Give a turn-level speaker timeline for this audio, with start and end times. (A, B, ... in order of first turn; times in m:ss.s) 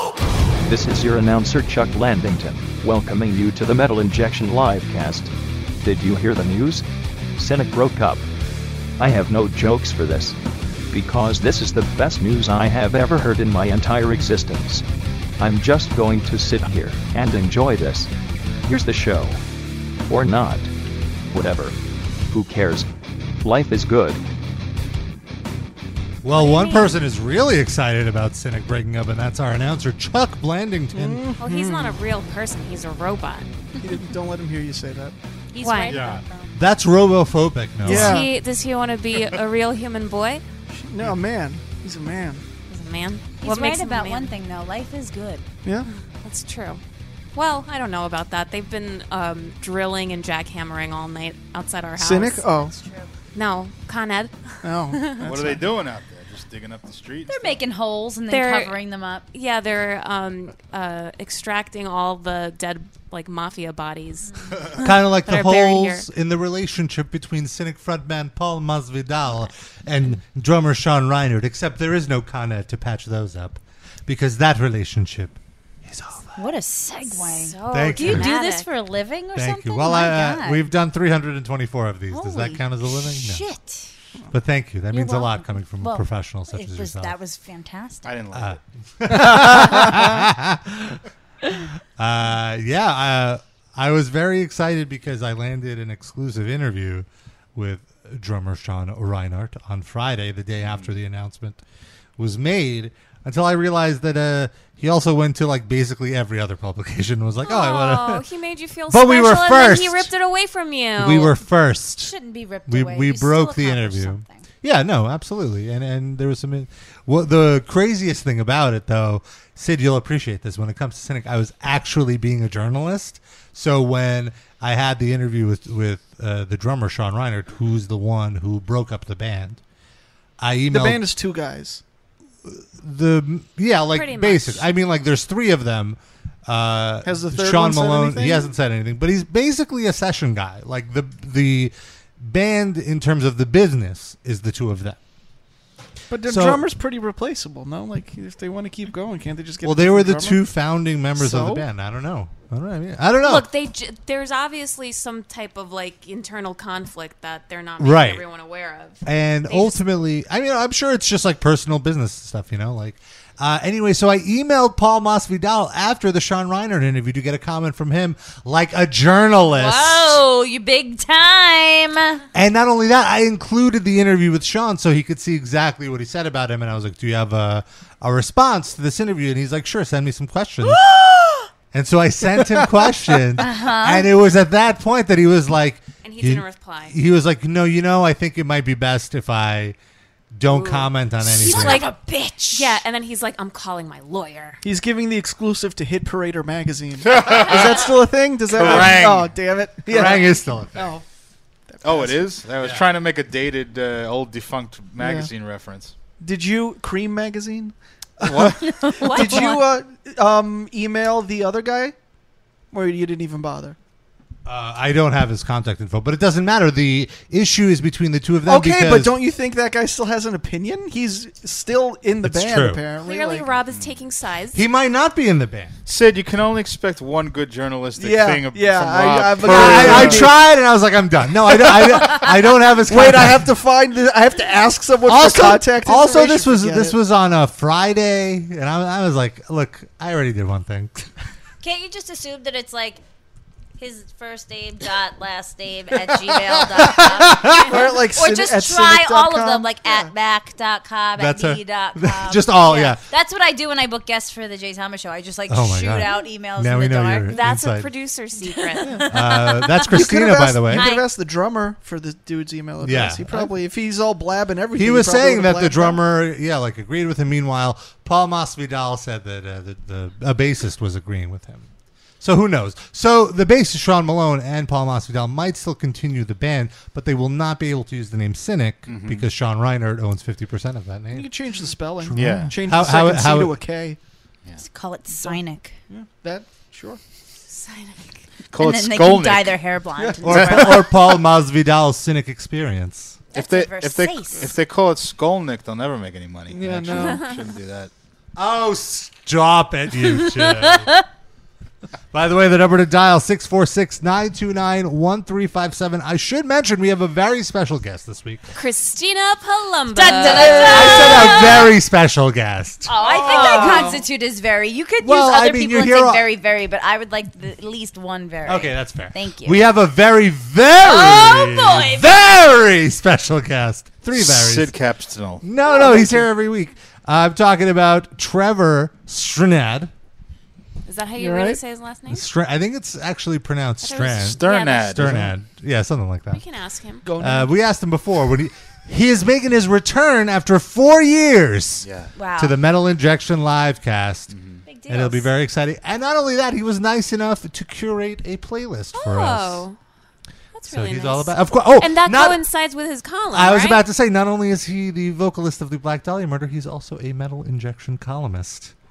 0:00.6-0:05.3 A
0:05.8-0:06.8 A
0:07.4-0:08.2 A
0:09.0-0:10.4 A
0:10.9-0:14.8 A
0:15.4-0:18.1 A
0:18.7-0:19.4 A
0:20.1-0:20.7 A
0:21.3-0:21.8 A
0:22.3-0:22.9 A
0:23.4-0:24.2 A
0:26.2-0:31.2 B
0:26.3-0:27.0 C
0:30.9-0:32.0 D
0:31.4-0:33.5 E
0:33.8-0:35.1 D
0:35.5-0:36.5 C
0:35.6-0:36.0 E
0:36.0-0:38.2 B
0:37.8-0:38.3 D
0:37.8-0:40.4 E
0:40.7-0:42.4 D
0:42.7-0:44.3 E
0:43.4-0:45.4 C
0:45.6-0:45.9 D
0:46.1-0:46.8 E
0:47.3-0:52.4 E
0:52.0-0:52.7 D
0:52.6-0:53.1 C
0:53.3-0:55.2 E
0:54.6-0:55.7 D
0:55.2-0:57.6 F
0:57.3-0:59.2 C
0:58.3-0:58.8 E
0:59.3-1:06.1 E
1:04.8-1:16.4 B
1:16.4-1:20.7 C
1:17.0-1:18.7 E
1:17.7-1:18.3 B
1:19.3-1:23.4 B
1:22.1-1:23.9 C
1:24.3-1:27.2 B
1:24.9-1:28.1 C
1:28.0-1:28.6 F
1:28.3-1:31.0 B
1:29.3-1:30.0 D
1:32.0-1:41.6 B
1:40.6-1:40.9 F
1:42.2-1:48.2 B
1:47.4-1:51.3 E
1:48.9-1:50.1 B
1:51.0-1:52.1 B
1:52.0-1:54.4 C
1:52.7-2:09.6 B
2:10.4-2:11.0 B
2:10.7-2:11.8 D
2:12.4-2:25.0 B
2:13.9-2:14.7 E
2:17.0-2:18.5 D
2:26.1-2:30.4 D
2:26.2-2:26.6 B
2:29.6-2:33.5 B
2:31.2-2:31.6 D
2:33.2-2:39.8 E
2:37.8-2:38.2 B
2:39.0-2:50.2 B
2:49.5-2:52.2 C
2:52.3-3:00.8 B
3:00.7-3:01.5 C
3:01.7-3:09.8 B
3:03.4-3:04.1 C
3:06.0-3:07.0 E
3:10.3-3:11.8 B
3:10.5-3:12.0 E
3:11.4-3:12.8 C
3:12.5-3:14.6 E
3:14.6-3:21.0 D
3:17.0-3:19.4 F
3:19.9-3:20.9 B
3:21.7-3:22.3 D
3:21.8-3:25.9 F
3:25.0-3:25.3 D
3:26.2-3:31.9 D
3:28.2-3:29.3 F
3:28.8-3:29.6 C
3:32.7-3:33.8 D
3:34.4-3:39.2 B
3:38.4-3:43.5 D
3:42.2-3:42.8 B
3:43.0-3:44.6 E
3:43.7-3:44.0 F
3:44.5-3:45.8 B
3:45.8-3:50.4 F
3:48.0-3:50.4 D
3:49.4-3:53.5 B
3:51.6-3:52.2 D
3:52.9-3:57.0 D
3:55.1-4:01.1 B
4:01.6-4:03.0 C
4:03.8-4:17.4 C
4:06.8-4:07.7 B
4:07.6-4:10.1 D
4:11.2-4:13.0 B
4:15.5-4:17.9 B
4:17.3-4:19.0 E
4:18.5-4:19.8 C
4:19.1-4:20.9 B
4:19.8-4:26.0 D
4:20.7-4:21.1 C
4:22.8-4:23.5 B
4:24.8-4:31.7 B
4:32.2-4:41.3 B
4:38.9-4:39.3 F
4:41.1-4:44.0 D
4:42.0-4:43.6 B
4:42.1-4:42.6 F
4:44.6-4:45.7 C
4:45.1-4:47.0 D
4:47.5-4:48.2 E
4:48.5-4:49.6 F
4:48.5-4:50.9 C
4:50.0-4:50.8 D
4:50.2-4:53.2 B
4:53.3-4:54.5 C
4:53.3-4:57.9 F
4:56.5-4:57.3 D
4:58.4-5:01.0 B
5:02.1-5:08.5 B
5:08.5-5:11.4 E
5:09.9-5:11.7 C
5:10.2-5:13.9 B
5:12.9-5:19.6 C
5:13.2-5:13.7 E
5:13.3-5:13.9 D
5:15.0-5:16.2 B
5:18.4-5:24.7 B
5:20.8-5:22.2 C
5:24.2-5:25.4 F
5:25.4-5:29.9 B
5:30.8-5:32.2 E
5:31.2-5:31.6 D
5:32.1-5:36.4 B
5:33.8-5:35.0 E
5:34.2-5:35.3 F
5:36.3-5:37.0 E
5:37.0-5:37.6 D
5:37.2-5:41.9 B
5:41.8-5:42.1 F
5:42.1-5:42.6 C
5:42.4-5:44.3 B
5:44.3-5:44.6 F
5:44.6-5:45.3 C
5:44.9-5:49.6 B
5:48.9-5:49.8 E
5:50.5-5:53.8 E
5:50.7-5:52.4 B
5:53.3-5:58.7 B